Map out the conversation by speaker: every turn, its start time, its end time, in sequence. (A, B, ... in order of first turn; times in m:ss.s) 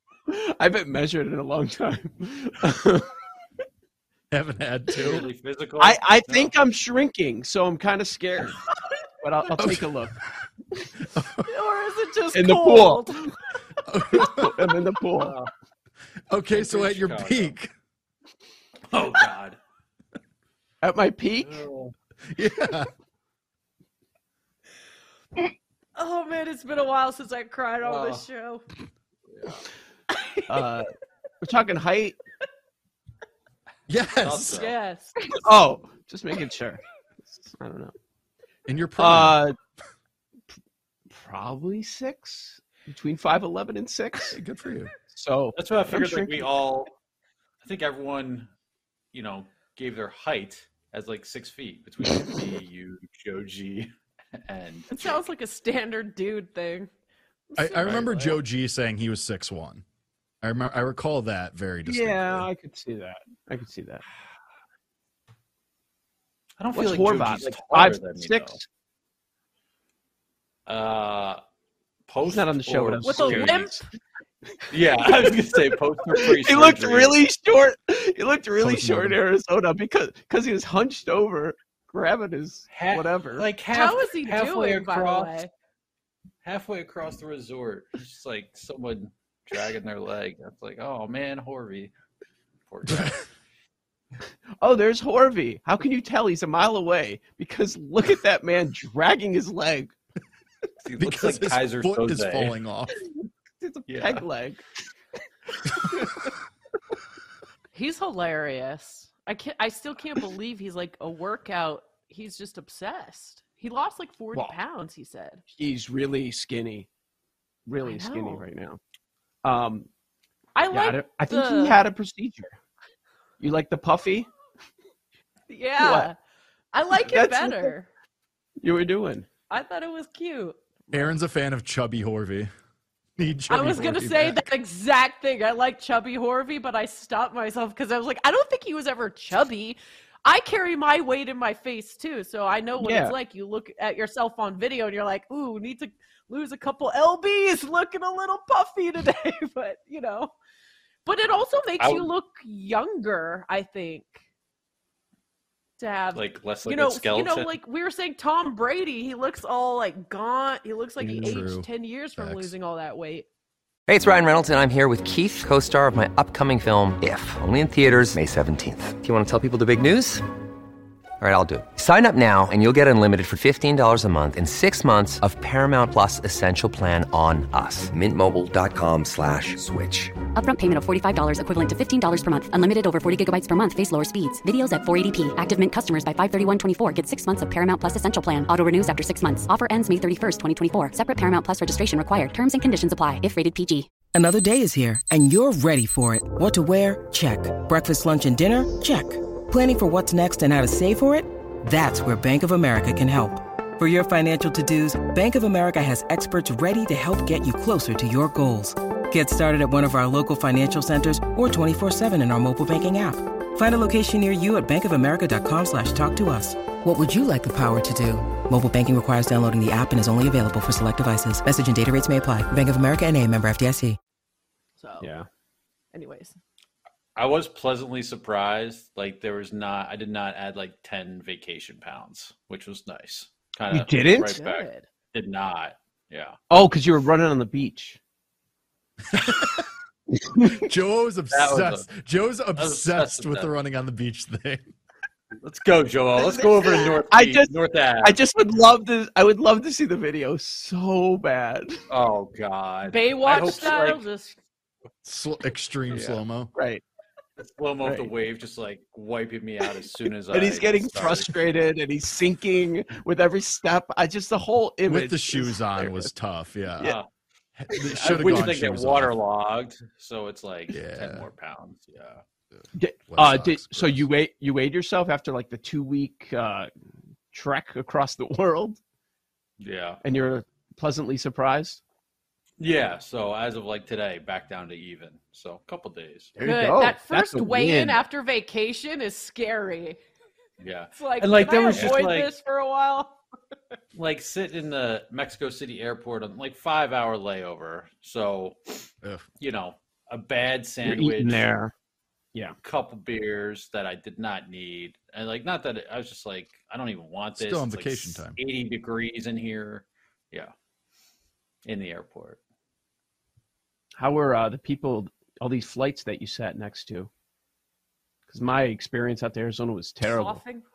0:00.3-0:03.1 A
0:04.3-0:05.2 B
0:05.0-0:06.6 C
0:05.8-0:08.6 A
0:09.2-0:10.1 A
0:09.6-0:10.0 B
0:11.0-0:11.5 B
0:11.4-0:13.3 D
0:12.3-0:13.1 A
0:13.8-0:14.6 B
0:14.3-0:15.3 A
0:15.2-0:15.5 C
0:16.3-0:17.7 B
0:16.5-0:17.6 C
0:18.9-0:19.6 C
0:20.8-0:21.6 A
0:21.4-0:21.9 C
0:22.3-0:22.9 B
0:26.0-0:28.6 D
0:27.8-0:28.3 C
0:29.3-0:29.7 C
0:30.1-0:30.6 D
0:30.5-0:30.9 A
0:31.4-0:32.2 A
0:33.9-0:34.7 B
0:34.2-0:34.7 C
0:34.5-0:35.2 D
0:35.4-0:37.9 A
0:38.7-0:39.4 B
0:39.0-0:39.6 A
0:41.1-0:44.4 A
0:44.3-0:44.9 B
0:45.1-0:46.4 A
0:45.6-0:46.9 C
0:47.6-0:48.5 C
0:49.1-0:55.2 C
0:54.9-0:56.9 D
0:57.5-0:58.4 D
0:57.6-0:59.8 B
1:00.4-1:02.5 B
1:01.8-1:04.0 A
1:06.6-1:08.6 C
1:06.7-1:08.6 A
1:10.7-1:11.4 C
1:12.1-1:13.6 C
1:12.2-1:13.8 A
1:13.0-1:13.8 D
1:14.7-1:17.2 C
1:15.0-1:23.6 A
1:18.6-1:19.2 B
1:22.7-1:25.4 C
1:23.6-1:25.5 D
1:26.4-1:31.9 C
1:32.7-1:33.2 C
1:32.8-1:33.2 B
1:34.6-1:39.9 A
1:40.8-1:42.6 C
1:41.0-1:43.0 B
1:43.6-1:44.6 A
1:43.9-1:44.2 C
1:47.7-1:55.4 D
1:55.5-1:56.9 A
1:57.7-1:58.8 A
1:57.8-1:58.4 D
1:59.4-1:59.9 A
2:00.5-2:01.8 D
2:00.7-2:02.5 A
2:03.4-2:04.3 A
2:05.5-2:06.1 D
2:05.8-2:06.1 A
2:06.7-2:07.9 D
2:06.9-2:07.8 A
2:08.6-2:09.4 A
2:09.4-2:10.6 D
2:10.9-2:12.5 B
2:13.2-2:14.4 B
2:13.5-2:30.3 D
2:13.8-2:14.2 A
2:22.8-2:23.2 A
2:31.0-2:34.2 D
2:31.8-2:32.1 C
2:35.8-2:43.3 D
2:36.1-2:37.5 C
2:41.0-2:42.5 B
2:43.9-2:50.2 E
2:51.2-3:00.1 E
3:00.3-3:13.9 F
3:14.1-3:44.0 G
3:44.8-3:45.1 D
3:45.0-3:45.2 A
3:45.9-3:46.4 D
3:47.2-3:56.4 C
3:53.7-3:54.4 A
3:54.3-3:54.9 D
3:56.5-3:58.0 A
3:59.1-3:59.7 B
4:00.5-4:04.7 B
4:01.3-4:01.9 C
4:02.6-4:03.5 C
4:05.4-4:08.2 C
4:06.1-4:11.8 A
4:11.9-4:14.0 C
4:12.8-4:14.4 D
4:15.0-4:16.5 B
4:15.9-4:16.2 C
4:16.5-4:16.8 A
4:17.4-4:21.3 C
4:17.8-4:18.1 A
4:20.3-4:26.1 A
4:24.9-4:26.9 B
4:27.6-4:29.1 B
4:27.7-4:28.5 A
4:27.9-4:32.2 C
4:30.7-4:31.3 B
4:32.8-4:36.7 A
4:33.1-4:34.0 B
4:37.3-4:38.8 A
4:39.6-4:40.0 C
4:40.0-4:41.8 A
4:42.6-4:46.4 C
4:46.4-4:48.0 A
4:46.4-4:50.0 D
4:50.6-4:52.3 C
4:50.9-4:53.2 D
4:53.9-4:58.8 C
4:59.4-5:01.5 C
5:00.8-5:01.7 A
5:02.6-5:10.5 C
5:07.4-5:08.4 B
5:11.6-5:12.4 C
5:14.0-5:17.1 A
5:18.3-5:20.4 A
5:20.0-5:20.6 D